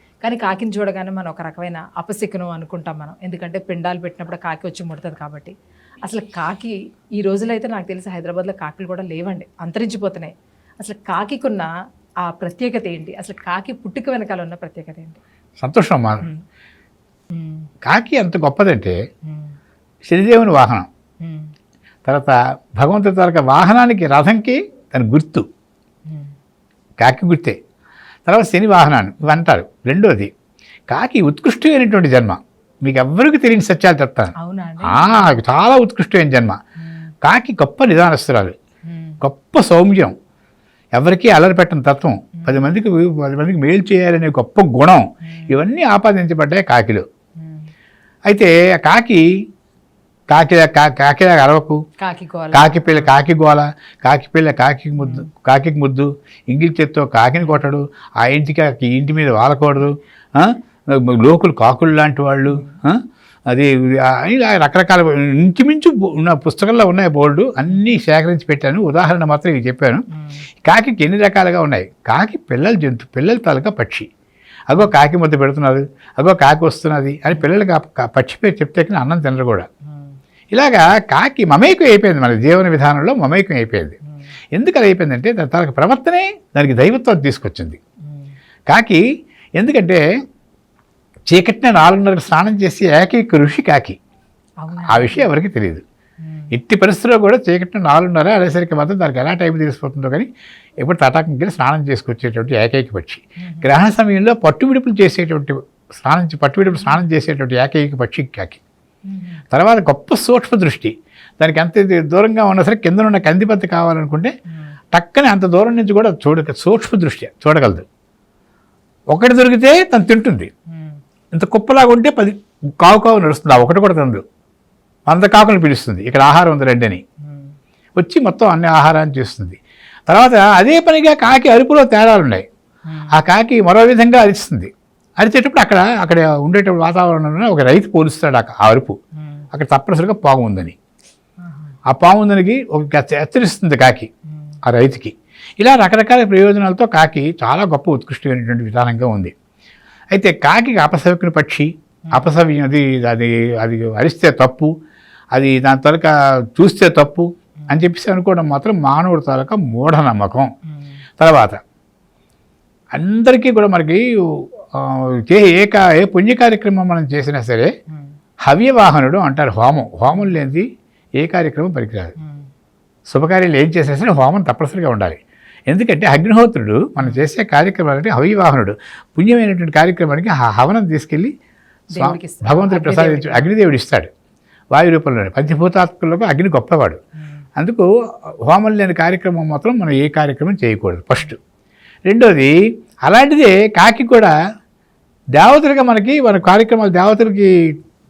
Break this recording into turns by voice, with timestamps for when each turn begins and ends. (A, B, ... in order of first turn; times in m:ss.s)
0:00.2-0:05.5 A
0:06.0-0:11.7 A
0:12.2-0:15.2 A
0:15.6-0:16.2 B
0:17.3-0:17.6 A
0:17.8-0:19.0 B
0:19.3-0:19.5 A
0:20.1-0:20.9 B
0:21.2-0:21.5 A
0:22.0-0:25.4 B
0:27.0-0:27.6 B
0:28.3-0:30.3 B
0:30.9-0:34.3 B
0:34.4-0:35.4 A
0:34.8-0:36.6 B
0:36.8-0:37.1 A
0:37.2-0:38.6 B
0:38.9-0:39.2 A
0:39.2-0:40.1 B
0:41.0-0:47.0 B
0:42.4-0:42.6 A
0:45.2-0:45.5 A
0:47.4-0:47.7 A
0:48.3-0:49.2 B
0:50.3-0:51.8 B
0:52.0-0:53.1 A
0:52.5-1:10.0 B
0:55.0-0:55.2 A
1:10.2-1:10.4 A
1:10.6-1:14.0 B
1:14.7-1:19.7 B
1:20.5-1:24.0 B
1:24.5-1:27.8 B
1:28.7-1:29.0 B
1:29.6-1:30.0 B
1:31.3-1:34.0 B
1:34.6-1:35.3 A
1:34.9-1:35.8 B
1:36.2-1:36.5 A
1:36.5-1:40.3 B
1:40.8-1:48.6 B
1:43.4-1:43.7 A
1:49.1-1:49.4 A
1:49.5-1:54.3 B
1:54.9-1:57.8 B
1:59.1-2:00.5 B
2:01.3-2:04.2 B
2:05.1-2:07.0 B
2:08.0-2:12.4 B
2:12.9-2:13.1 A
2:13.1-2:19.0 B
2:19.5-2:20.8 B
2:21.4-2:21.8 A
2:21.9-2:24.1 B
2:24.6-2:29.3 B
2:30.1-2:34.7 B
2:35.3-2:40.5 B
2:41.2-2:41.6 B
2:42.9-2:47.7 B
2:48.4-2:50.7 B
2:51.2-2:52.1 B
2:53.1-3:01.3 B
3:01.9-3:03.5 A
3:01.9-3:04.1 B
3:04.7-3:07.0 B
3:07.6-3:07.9 B
3:08.5-3:11.4 B
3:12.1-3:12.5 B
3:13.0-3:14.3 B
3:15.4-3:17.5 B